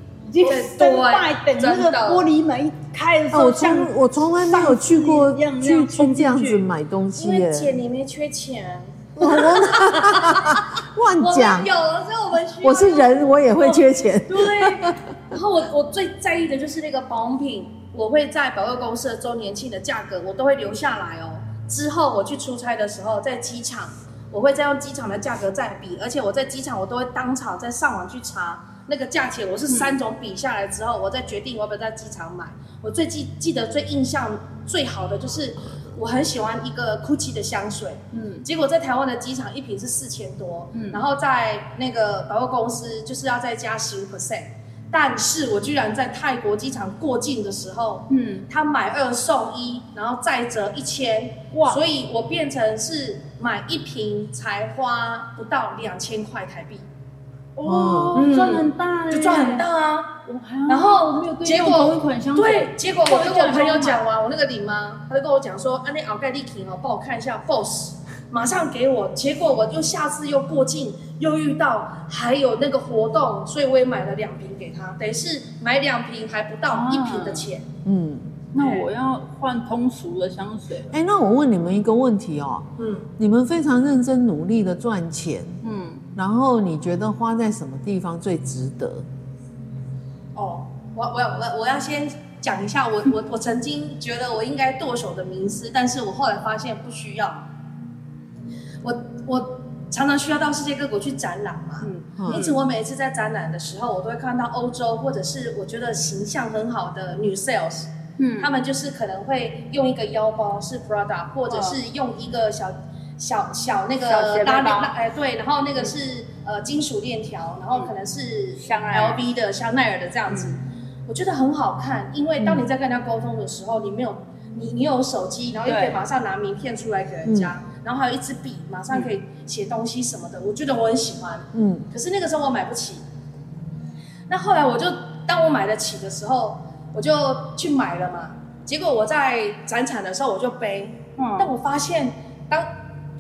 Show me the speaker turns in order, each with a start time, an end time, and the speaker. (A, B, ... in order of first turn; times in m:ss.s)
0:00.3-0:06.7 A
0:00.4-0:02.3 B
0:03.3-0:07.8 C
0:07.2-0:10.7 B
0:09.2-0:11.7 C
0:11.2-0:56.9 B
0:12.6-0:15.0 C
0:29.7-0:30.0 A
0:38.1-0:38.4 A
0:40.7-0:41.0 A
0:48.1-0:48.5 A
0:51.5-0:51.8 A
0:57.6-0:59.7 A
0:57.6-0:58.3 C
0:58.1-1:00.2 B
1:00.2-1:04.0 A
1:00.7-1:17.7 B
1:16.7-1:17.5 A
1:17.8-1:18.4 C
1:18.5-1:20.9 A
1:18.6-1:18.9 B
1:20.9-1:22.7 C
1:22.8-1:23.1 B
1:23.2-1:25.6 C
1:25.6-1:26.1 A
1:26.2-1:29.1 C
1:30.4-1:37.5 B
1:38.8-2:13.0 B
1:41.8-1:42.6 A
1:42.2-1:42.4 C
1:48.2-1:48.5 A
1:51.5-1:51.8 A
1:54.1-1:54.9 A
1:58.6-1:59.2 A
2:05.7-2:06.0 A
2:07.3-2:07.5 C
2:11.6-2:11.9 C
2:14.3-2:22.7 B
2:21.2-2:21.5 A